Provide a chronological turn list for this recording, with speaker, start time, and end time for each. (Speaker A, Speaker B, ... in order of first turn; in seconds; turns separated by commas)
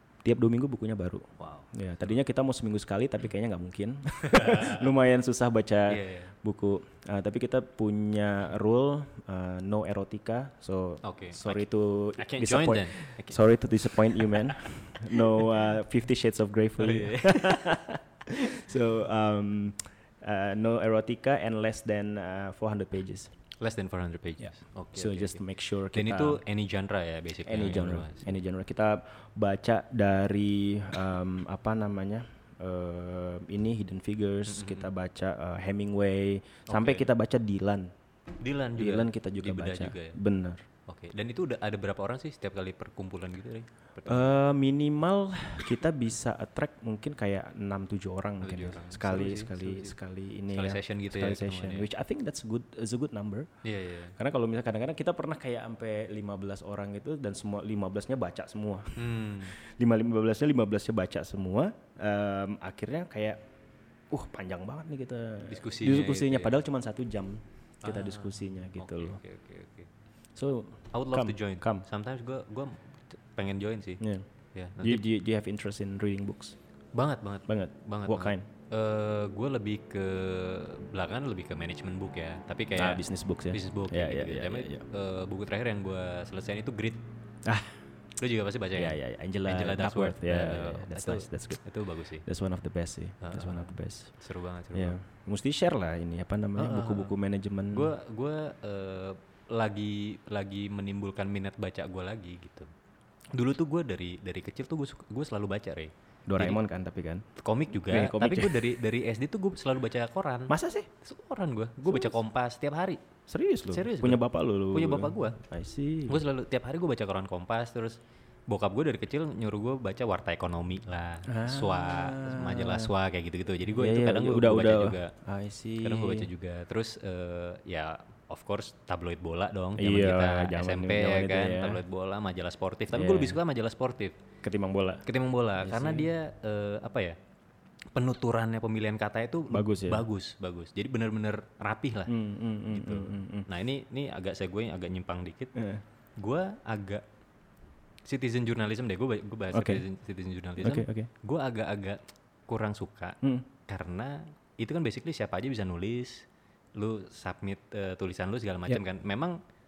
Speaker A: 0.2-23.3, Speaker B: 1.4-1.7, Speaker B: 4.2-4.8, Speaker B: 5.9-6.3, Speaker B: 11.0-13.4, Speaker B: 14.0-14.4, Speaker B: 16.8-17.8, Speaker B: 23.6-25.4, Speaker A: 24.4-26.4, Speaker B: 25.9-28.3, Speaker A: 27.4-37.9, Speaker B: 34.5-34.9, Speaker B: 36.7-37.1, Speaker B: 38.4-40.2, Speaker A: 38.8-40.6, Speaker B: 40.9-44.2, Speaker A: 44.0-53.5, Speaker B: 48.4-50.0, Speaker B: 50.5-51.9, Speaker B: 53.6-54.1, Speaker A: 54.1-63.4, Speaker B: 59.0-59.5, Speaker A: 64.1-69.2, Speaker B: 65.5-66.5, Speaker B: 67.8-69.9, Speaker A: 70.3-71.8, Speaker B: 70.9-74.0, Speaker A: 74.0-74.2, Speaker B: 74.5-75.0, Speaker A: 74.8-76.5, Speaker B: 76.9-87.0, Speaker A: 77.5-78.5, Speaker A: 82.8-84.8, Speaker A: 87.4-87.8, Speaker B: 88.2-92.2, Speaker A: 88.8-91.7, Speaker A: 92.2-94.1, Speaker B: 93.2-95.0, Speaker A: 94.7-97.9, Speaker B: 96.6-97.1, Speaker B: 97.7-102.7, Speaker B: 103.3-106.6, Speaker A: 106.3-107.2, Speaker B: 107.3-113.0, Speaker A: 107.8-108.6, Speaker A: 110.5-110.9, Speaker A: 111.8-112.2, Speaker A: 113.3-116.2, Speaker B: 113.7-115.4, Speaker B: 116.1-125.1, Speaker A: 121.3-122.9, Speaker A: 123.7-126.3, Speaker B: 125.8-134.2, Speaker A: 129.8-131.8, Speaker A: 132.9-133.4, Speaker A: 134.4-135.0, Speaker B: 135.0-137.2, Speaker A: 135.6-136.1, Speaker B: 137.9-142.1, Speaker A: 139.5-140.1, Speaker A: 142.1-143.5, Speaker B: 142.7-145.6, Speaker A: 145.5-145.8, Speaker B: 146.2-147.0, Speaker B: 148.0-159.4, Speaker A: 149.5-149.8, Speaker A: 150.6-151.1